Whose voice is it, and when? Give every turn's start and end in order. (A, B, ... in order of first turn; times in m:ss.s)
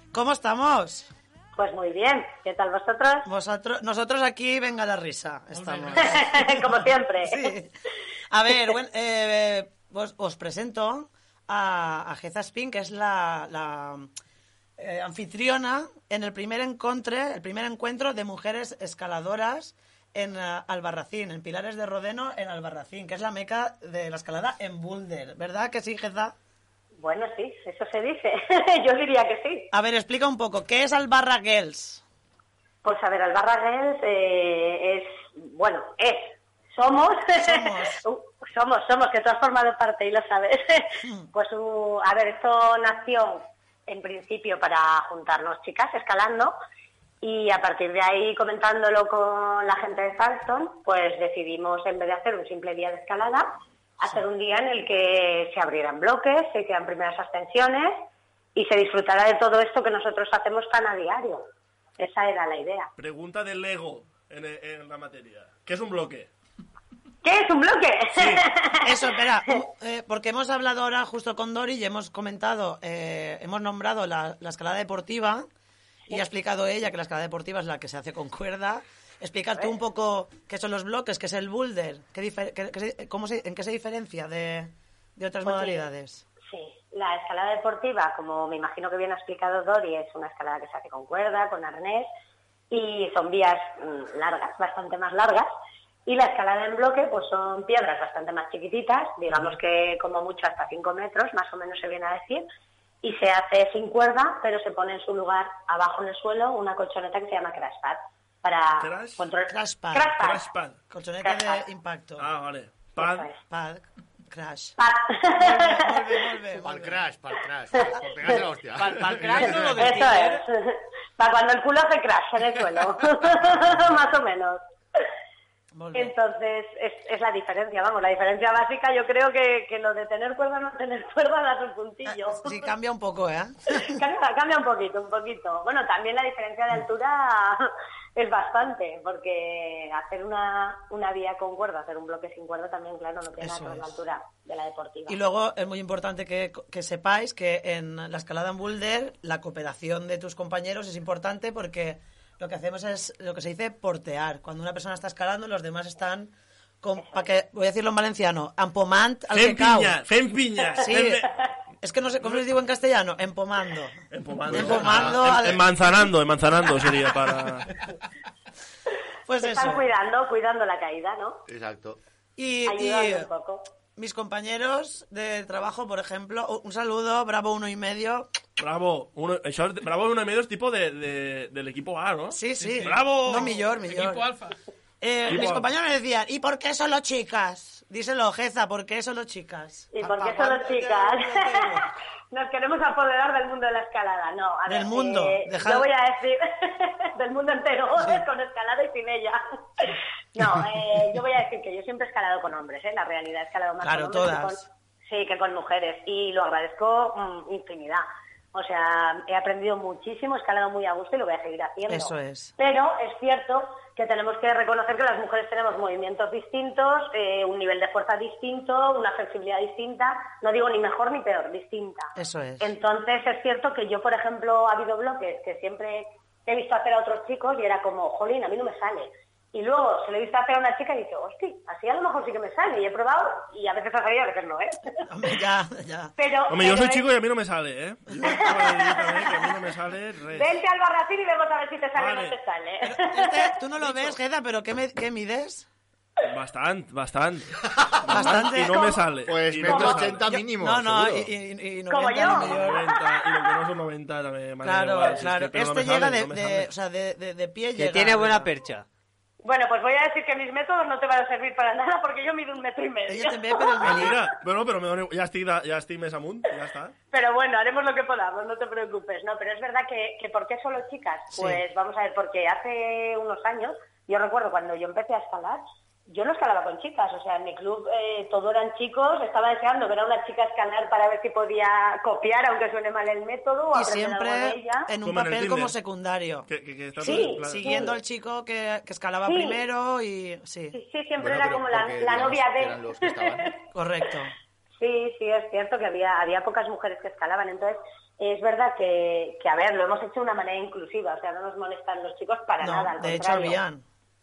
0:00.1-0:01.1 A
0:01.6-0:03.3 B
0:03.2-0:06.6 A
0:05.5-0:06.3 C
0:05.9-0:07.5 B
0:07.2-0:07.7 A
0:08.3-0:14.1 A
0:14.8-0:26.3 A
0:27.0-0:29.7 B
0:29.7-0:32.0 A
0:32.8-0:46.6 B
0:37.4-0:38.0 A
0:41.0-0:41.3 A
0:47.2-1:01.5 B
1:02.0-1:02.9 B
1:03.0-1:06.3 D
1:07.2-1:09.6 B
1:08.1-1:08.5 D
1:08.8-1:15.4 A
1:16.1-1:26.2 A
1:25.4-1:25.8 B
1:26.4-1:32.1 B
1:32.7-1:35.5 B
1:36.0-1:42.5 B
1:43.0-1:50.4 B
1:48.8-1:49.2 D
1:49.5-1:50.1 A
1:50.2-1:50.8 D
1:50.9-1:52.3 A
1:51.2-1:51.6 B
1:52.2-1:53.3 D
1:53.0-1:53.4 B
1:53.5-1:54.7 A
1:54.8-1:56.4 B
1:55.4-1:57.0 A
1:56.6-1:59.7 E
1:57.7-1:58.4 B
1:58.7-2:00.4 F
1:59.4-1:59.8 D
1:59.8-2:05.0 B
2:05.7-2:06.1 A
2:05.9-2:12.6 B
2:12.1-2:13.9 A
2:13.7-2:25.2 B
2:23.4-2:23.9 A
2:25.1-2:39.9 A
2:39.3-2:41.3 D
2:40.8-2:41.2 A
2:41.8-2:44.0 A
2:44.1-2:47.7 D
2:44.5-2:45.2 E
2:44.5-2:46.1 A
2:49.3-2:49.8 A
2:49.4-2:51.4 B
2:51.5-2:52.0 E
2:52.4-2:53.3 A
2:52.6-2:53.6 B
2:54.0-2:58.3 A
2:58.6-3:03.6 D
3:02.3-3:04.2 A
3:02.6-3:04.6 C
3:05.0-3:11.8 A
3:05.3-3:05.7 D
3:09.9-3:55.0 B
3:14.7-3:15.9 A
3:23.8-3:24.6 A
3:31.9-3:32.5 A
3:42.2-3:42.7 A
3:55.1-3:56.1 A
3:56.2-3:57.1 B
3:56.5-4:00.5 D
3:58.2-3:59.6 B
4:00.3-4:03.6 B
4:02.0-4:02.4 D
4:02.8-4:05.7 A
4:03.8-4:04.1 D
4:06.3-4:10.2 D
4:08.1-4:08.8 A
4:08.6-4:09.0 B
4:09.2-4:11.2 E
4:09.7-4:12.8 A
4:11.9-4:12.5 B
4:12.2-4:16.7 D
4:14.6-4:18.5 A
4:17.8-4:18.8 F
4:19.4-4:24.3 B
4:23.1-4:24.2 A
4:23.8-4:26.9 D
4:27.1-4:44.9 B
4:31.3-4:31.6 A
4:43.7-4:50.8 A
4:45.0-4:45.8 D
4:46.5-4:47.9 D
4:47.0-4:48.0 B
4:49.2-4:49.6 B
4:50.7-4:53.6 B
4:51.2-4:53.5 E
4:53.7-4:54.3 A
4:54.8-5:03.6 B
5:02.6-5:03.8 A